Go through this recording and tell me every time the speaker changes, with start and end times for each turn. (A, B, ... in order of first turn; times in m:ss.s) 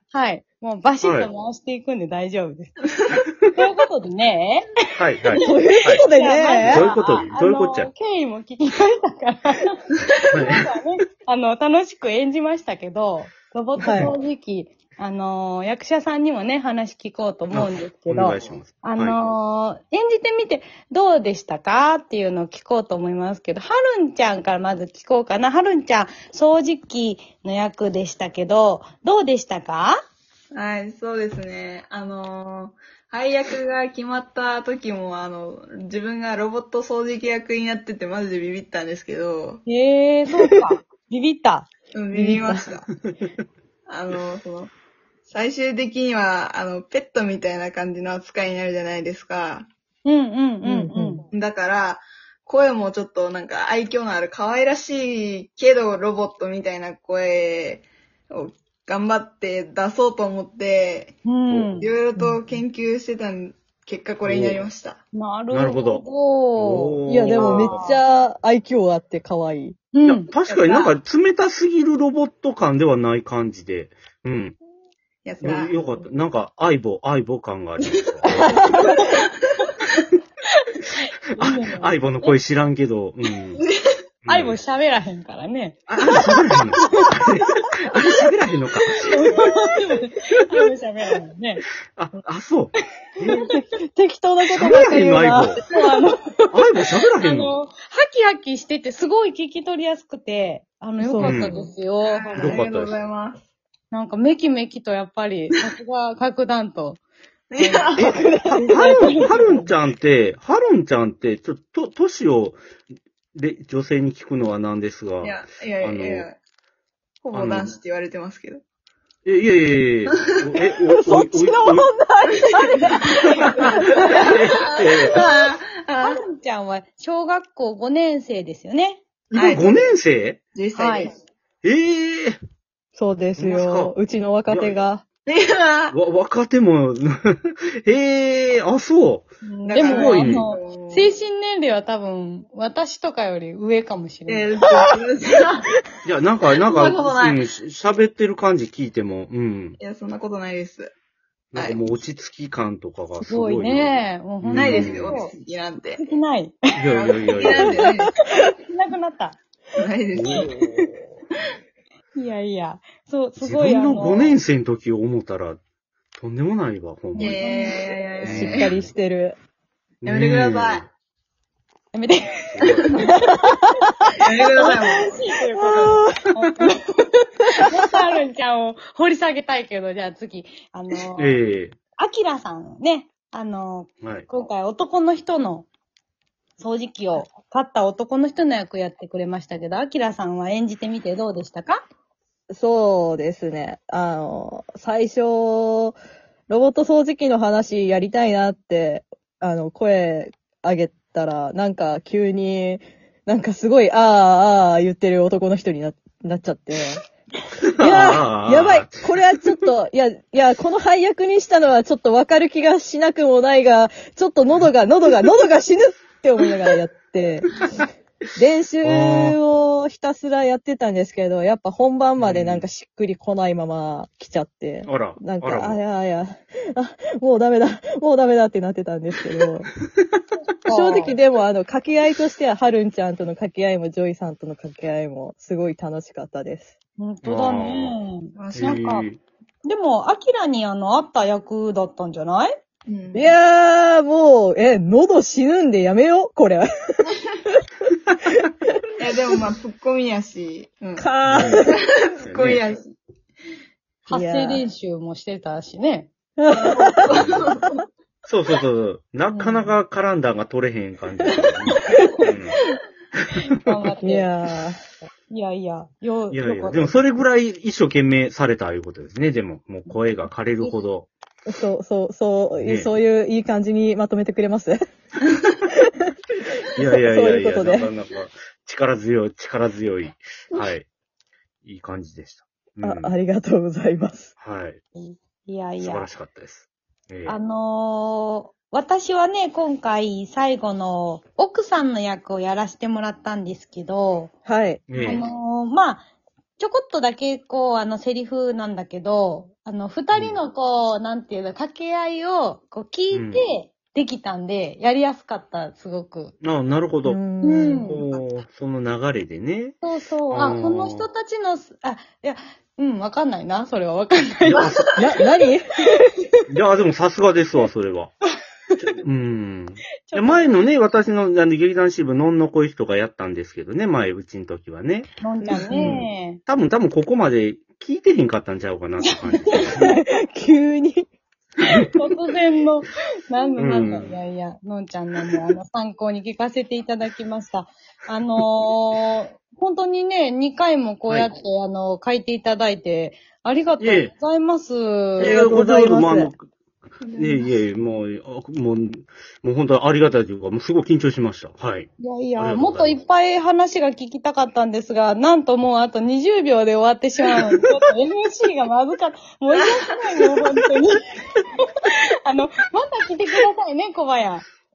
0:00.1-0:02.9 A
0:01.0-0:01.3 B
0:03.5-0:04.7 A
0:05.0-0:06.0 B
0:05.3-0:30.0 A
0:05.4-0:06.9 C
0:06.6-0:07.9 B
0:10.3-0:10.7 B
0:13.8-0:14.1 C
0:17.5-0:19.2 B
0:30.5-0:39.6 D
0:39.6-0:41.7 A
0:41.9-0:42.9 D
0:42.1-0:42.6 C
0:43.9-0:44.7 D
0:45.2-0:49.7 D
0:50.0-0:51.2 A
0:50.6-0:51.2 C
0:51.3-1:01.2 D
1:01.2-1:01.9 A
1:01.8-1:05.0 D
1:02.2-1:02.6 C
1:04.2-1:04.6 B
1:05.1-1:08.0 A
1:05.5-1:06.0 B
1:06.6-1:07.8 B
1:07.0-1:09.8 C
1:09.9-1:10.3 A
1:10.0-1:14.6 B
1:10.5-1:11.0 D
1:15.2-1:15.8 D
1:15.4-1:18.7 B
1:18.4-1:19.0 C
1:18.6-1:19.3 D
1:20.6-1:22.3 A
1:21.4-1:23.6 B
1:23.6-1:23.9 D
1:24.2-1:24.6 B
1:24.3-1:25.8 A
1:25.9-1:29.2 B
1:29.0-1:31.6 A
1:32.0-1:33.5 B
1:33.5-1:35.6 C
1:34.5-1:35.6 B
1:35.6-1:36.3 A
1:36.5-1:37.5 B
1:37.1-1:42.6 A
1:41.0-1:41.6 C
1:41.2-1:41.6 B
1:42.0-1:43.4 D
1:42.4-1:43.0 B
1:43.9-1:47.0 A
1:47.5-1:48.1 D
1:47.6-1:49.6 A
1:48.0-1:52.6 B
1:48.1-1:48.7 C
1:53.3-1:56.3 B
1:55.2-1:56.4 D
1:57.2-1:58.6 D
1:57.3-1:57.7 B
1:59.2-2:01.9 B
2:00.1-2:00.6 D
2:01.0-2:04.3 C
2:02.3-2:06.2 D
2:03.6-2:04.0 A
2:04.0-2:05.2 B
2:06.0-2:09.0 A
2:09.3-2:10.4 B
2:09.3-2:10.0 D
2:10.5-2:11.1 D
2:10.8-2:11.1 A
2:11.6-2:12.4 B
2:12.9-2:15.0 C
2:13.4-2:14.8 B
2:15.2-2:16.0 D
2:15.9-2:20.5 B
2:19.4-2:21.1 D
2:19.7-2:24.5 A
2:24.3-2:25.7 D
2:26.0-2:29.8 B
2:26.6-2:27.4 D
2:29.8-2:30.9 D
2:31.5-2:35.2 B
2:31.5-2:31.9 D
2:33.2-2:35.3 A
2:34.5-2:36.0 D
2:36.0-2:36.7 A
2:36.7-2:37.8 B
2:36.9-2:38.1 D
2:37.4-2:39.4 A
2:39.8-2:40.5 D
2:40.1-2:40.6 B
2:40.3-2:40.9 A
2:42.1-2:44.4 A
2:43.4-2:45.6 B
2:46.2-2:47.4 B
2:47.2-2:47.9 A
2:47.2-2:48.7 D
2:48.2-2:48.9 B
2:48.2-2:49.4 C
2:50.0-2:50.9 B
2:50.0-2:50.8 D
2:51.9-2:53.6 A
2:52.5-2:53.0 B
2:52.6-2:52.9 D
2:53.5-2:54.1 C
2:54.2-2:55.3 D
2:54.5-2:56.8 A
2:55.6-2:56.7 C
2:57.6-3:01.4 A
3:01.2-3:01.8 B
3:02.0-3:05.7 A
3:04.0-3:04.3 B
3:06.6-3:11.8 A
3:12.5-3:16.0 C
3:16.5-3:27.0 C
3:27.6-3:29.6 B
3:27.8-3:49.7 C
3:38.8-3:39.4 B
3:42.2-3:42.6 B
3:44.8-3:45.8 B
3:50.6-3:51.2 A
3:50.6-3:56.7 C
3:57.0-3:59.0 A
3:57.2-3:58.0 B
3:58.4-3:58.9 D
3:58.5-3:59.2 B
3:59.6-4:02.5 A
4:02.9-4:03.3 D
4:03.1-4:07.1 C
4:09.0-4:12.9 D
4:11.0-4:11.7 C
4:11.2-4:11.7 B
4:12.2-4:12.6 B
4:14.1-4:16.1 A
4:14.1-4:14.6 C
4:16.4-4:17.2 C
4:16.5-4:17.8 D
4:17.1-4:17.4 B
4:18.2-4:22.6 B
4:19.3-4:19.7 A
4:23.5-4:24.3 A
4:24.0-4:24.8 C
4:25.3-4:27.0 A
4:26.3-4:31.1 B
4:31.5-4:34.8 C
4:32.6-4:32.9 B
4:36.8-4:40.9 B
4:36.8-4:37.9 C
4:41.6-4:43.2 B
4:42.8-4:44.3 C
4:44.4-4:44.8 B
4:45.0-4:46.1 A
4:45.8-4:47.4 B
4:47.2-4:54.3 A
4:54.4-4:54.8 C
4:54.9-4:55.3 B
4:55.0-4:56.1 A
4:56.6-5:06.3 A
5:00.1-5:00.4 B
5:03.1-5:03.4 B
5:06.4-5:07.2 B
5:07.0-5:08.0 C
5:07.4-5:08.0 A
5:07.8-5:09.8 B
5:09.8-5:14.8 A
5:10.3-5:11.1 B
5:14.5-5:15.0 B
5:15.0-5:15.8 C
5:16.5-5:18.1 B
5:18.8-5:25.1 B
5:20.1-5:20.6 A
5:25.2-5:26.4 A
5:25.4-5:25.9 C
5:25.6-5:29.9 B
5:29.1-5:29.9 A
5:29.6-5:31.1 C
5:31.8-5:45.4 A
5:33.6-5:34.2 B
5:43.8-5:44.1 B
5:45.2-5:46.5 B
5:45.2-5:46.3 C
5:47.0-5:47.6 D
5:47.1-5:53.0 B
5:52.0-6:04.4 A